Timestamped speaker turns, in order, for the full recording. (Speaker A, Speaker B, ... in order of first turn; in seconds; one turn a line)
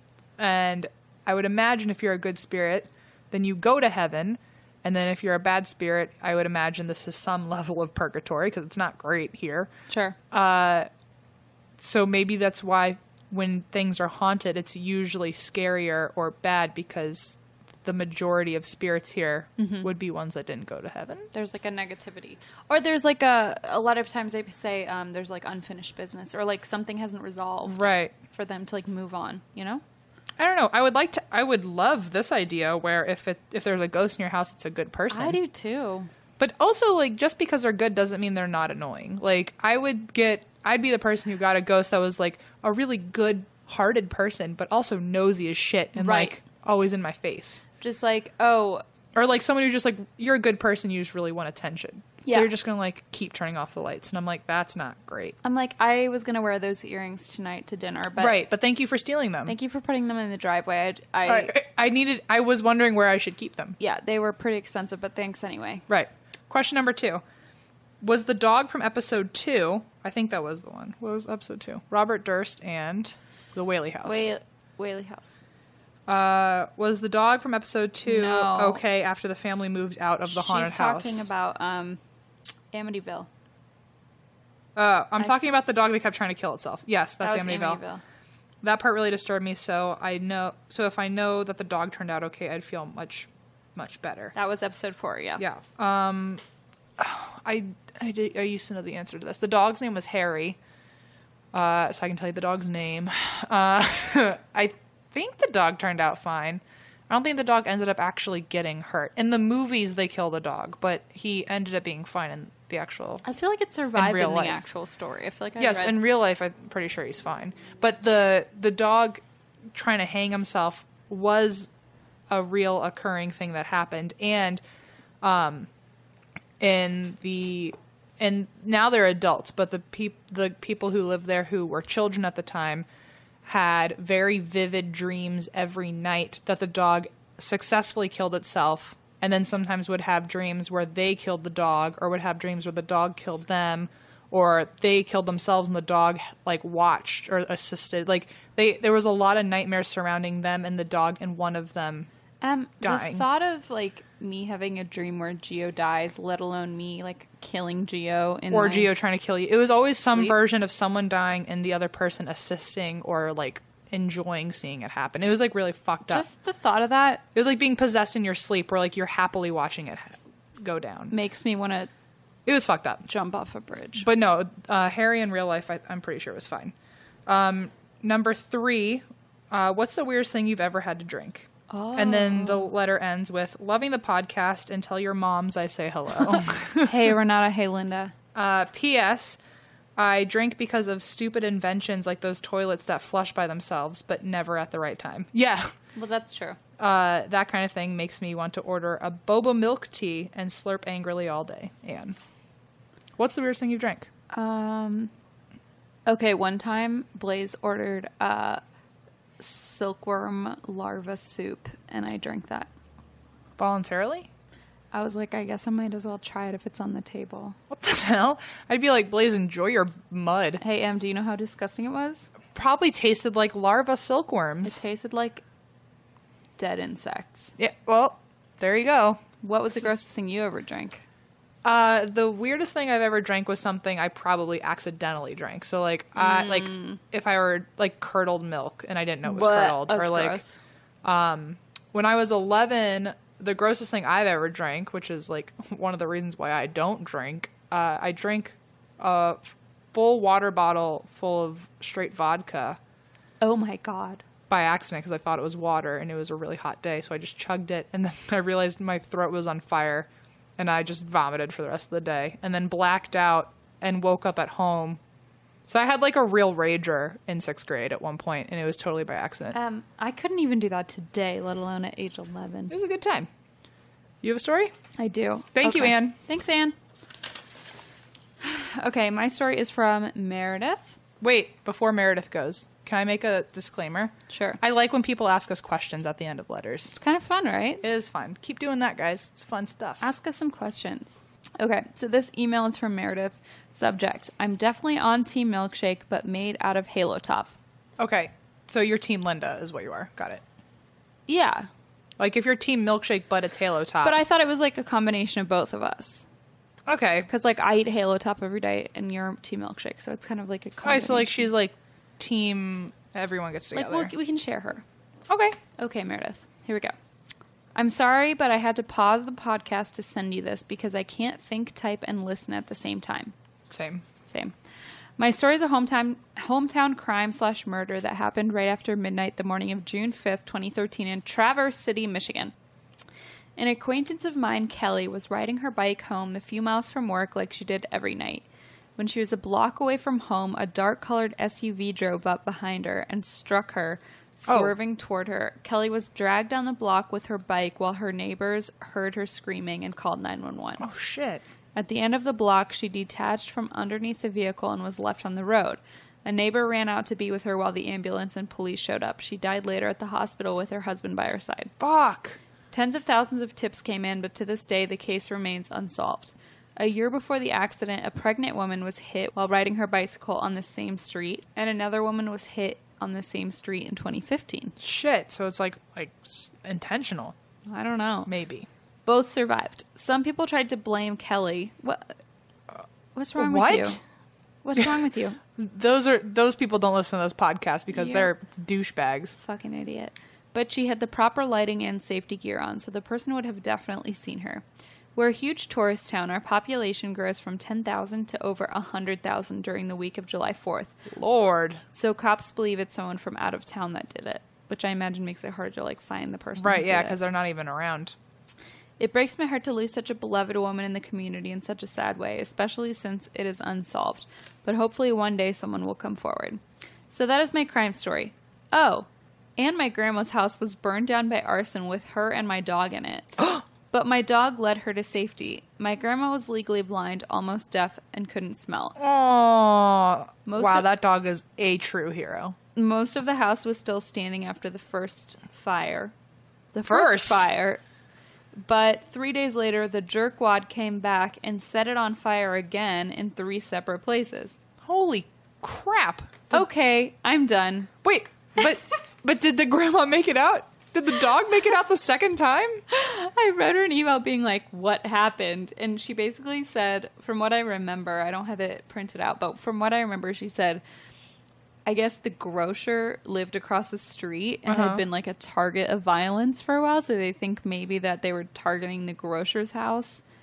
Speaker A: 0.4-9.7
Speaker B: 9.9-10.2
Speaker A: 10.3-10.9
Speaker A: 11.8-21.3
Speaker B: 19.6-19.9
Speaker B: 21.3-29.8
Speaker A: 27.7-28.1
Speaker A: 30.4-35.4
Speaker B: 35.1-36.1
Speaker A: 36.4-47.6
Speaker B: 46.0-46.4
Speaker B: 47.8-48.8
Speaker A: 49.1-55.4
Speaker B: 52.2-52.5
Speaker B: 55.4-58.4
Speaker A: 58.2-59.5
Speaker B: 59.5-61.5
Speaker A: 61.2-63.8
Speaker B: 63.8-65.8
Speaker A: 65.9-67.2
Speaker A: 68.0-74.3
Speaker B: 74.0-75.4
Speaker A: 76.1-81.3
Speaker B: 78.1-78.8
Speaker B: 80.3-82.0
Speaker B: 82.7-83.3
Speaker A: 84.8-87.8
Speaker B: 87.2-88.0
Speaker A: 88.6-94.3
Speaker B: 94.3-95.4
Speaker A: 95.4-96.4
Speaker A: 97.0-100.6
Speaker A: 101.5-113.2
Speaker B: 113.2-116.0
Speaker A: 113.9-114.6
Speaker A: 115.6-119.2
Speaker A: 119.7-121.7
Speaker A: 122.3-124.6
Speaker A: 125.2-125.7
Speaker A: 126.6-132.9
Speaker A: 133.5-152.1
Speaker B: 152.4-158.9
Speaker A: 152.8-153.2
Speaker A: 158.5-166.2
Speaker B: 166.1-167.2
Speaker A: 167.3-171.1
Speaker B: 171.1-171.9
Speaker A: 172.5-173.1
Speaker B: 173.1-174.1
Speaker A: 174.0-176.7
Speaker A: 177.3-187.1
Speaker B: 181.7-182.7
Speaker B: 186.2-188.1
Speaker A: 188.3-189.4
Speaker A: 190.0-195.7
Speaker B: 196.0-196.6
Speaker A: 196.8-202.2
Speaker A: 203.2-204.1
Speaker B: 204.3-205.1
Speaker B: 206.1-208.6
Speaker B: 209.4-212.7
Speaker A: 213.6-214.3
Speaker B: 214.9-217.6
Speaker A: 217.7-220.6
Speaker B: 220.6-222.3
Speaker A: 222.5-224.8
Speaker B: 224.6-225.4
Speaker B: 226.6-227.6
Speaker A: 227.6-229.2
Speaker B: 229.4-231.0
Speaker A: 231.6-240.4
Speaker B: 236.2-237.0
Speaker B: 239.2-240.6
Speaker A: 241.0-252.8
Speaker B: 253.4-254.2
Speaker A: 254.5-265.0
Speaker A: 265.7-269.6
Speaker B: 269.5-272.7
Speaker A: 272.7-273.3
Speaker A: 274.2-274.7
Speaker B: 275.0-276.8
Speaker A: 275.6-276.1
Speaker B: 278.4-281.0
Speaker A: 281.2-286.9
Speaker B: 284.3-284.6
Speaker B: 286.9-287.8
Speaker A: 287.8-290.1
Speaker B: 290.0-297.5
Speaker A: 298.0-300.4
Speaker B: 301.3-301.7
Speaker A: 302.2-304.2
Speaker B: 304.0-306.2
Speaker A: 306.9-307.3
Speaker B: 307.3-311.5
Speaker A: 310.8-314.1
Speaker B: 313.7-314.8
Speaker A: 315.3-315.6
Speaker B: 315.8-316.9
Speaker B: 317.8-323.3
Speaker A: 323.7-324.0
Speaker B: 324.3-324.5
Speaker B: 325.2-332.5
Speaker B: 333.6-338.4
Speaker B: 339.0-350.9
Speaker A: 344.5-344.8
Speaker A: 350.8-351.4
Speaker B: 351.8-361.7
Speaker A: 361.8-362.4
Speaker B: 362.7-374.8
Speaker A: 374.8-377.3
Speaker B: 377.7-378.3
Speaker A: 378.3-378.7
Speaker B: 379.1-382.1
Speaker B: 383.1-384.0
Speaker A: 383.4-384.0
Speaker B: 384.6-385.4
Speaker A: 385.6-389.4
Speaker B: 387.9-388.3
Speaker B: 389.4-394.6
Speaker B: 395.1-400.9
Speaker A: 401.1-401.8
Speaker B: 401.9-407.1
Speaker A: 406.6-408.1
Speaker B: 409.0-428.9
Speaker A: 429.0-432.6
Speaker B: 430.4-430.9
Speaker B: 432.8-436.1
Speaker B: 436.7-437.8
Speaker A: 436.9-437.5
Speaker B: 438.6-444.5
Speaker A: 444.9-446.6
Speaker B: 446.5-447.9
Speaker A: 448.0-452.8
Speaker B: 452.9-460.8
Speaker B: 461.9-470.2
Speaker A: 464.6-465.0